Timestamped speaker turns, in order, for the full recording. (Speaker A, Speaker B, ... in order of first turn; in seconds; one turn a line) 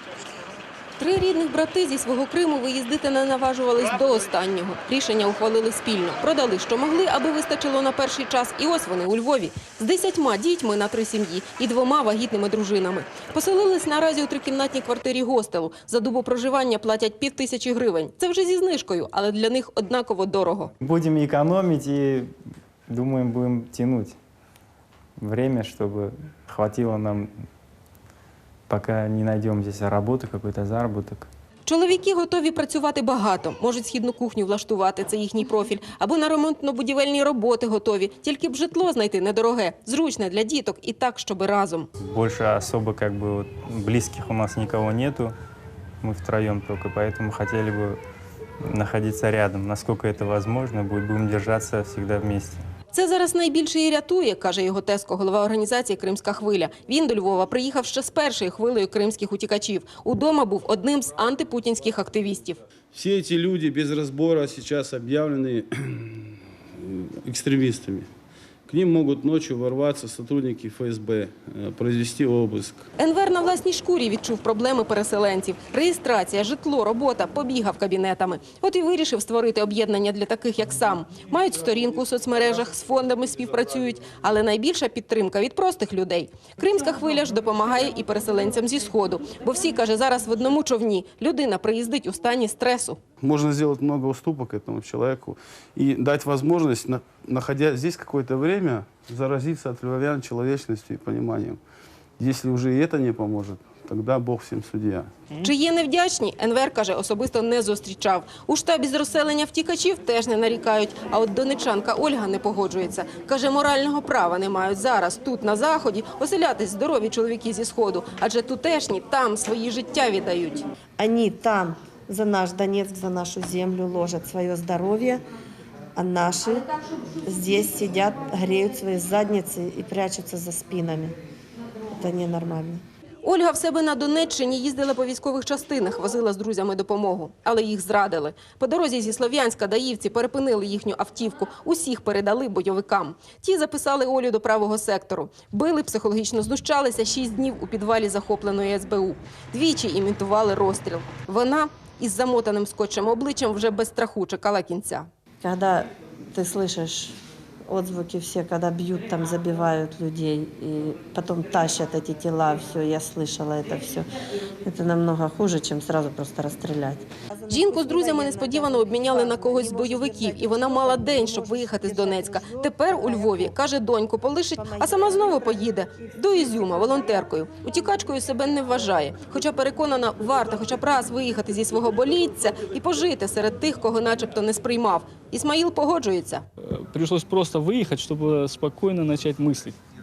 Speaker A: 1.0-20.7
Speaker B: 20.8-22.3
Speaker B: 22.9-24.1
Speaker B: 25.2-27.3
Speaker B: 28.7-31.3
Speaker A: 31.6-41.9
Speaker B: 42.0-45.3
Speaker B: 46.0-48.0
Speaker B: 48.6-52.6
Speaker A: 52.9-62.6
Speaker C: 62.9-68.1
Speaker C: 68.7-72.8
Speaker A: 73.0-93.0
Speaker C: 93.2-101.6
Speaker C: 102.2-105.3
Speaker A: 105.4-120.7
Speaker D: 121.0-125.2
Speaker D: 126.0-126.7
Speaker D: 127.2-131.2
Speaker D: 131.9-132.8
Speaker A: 133.2-155.1
Speaker D: 155.4-164.1
Speaker D: 164.6-173.5
Speaker A: 167.5-186.5
Speaker D: 174.6-175.5
Speaker E: 186.6-189.8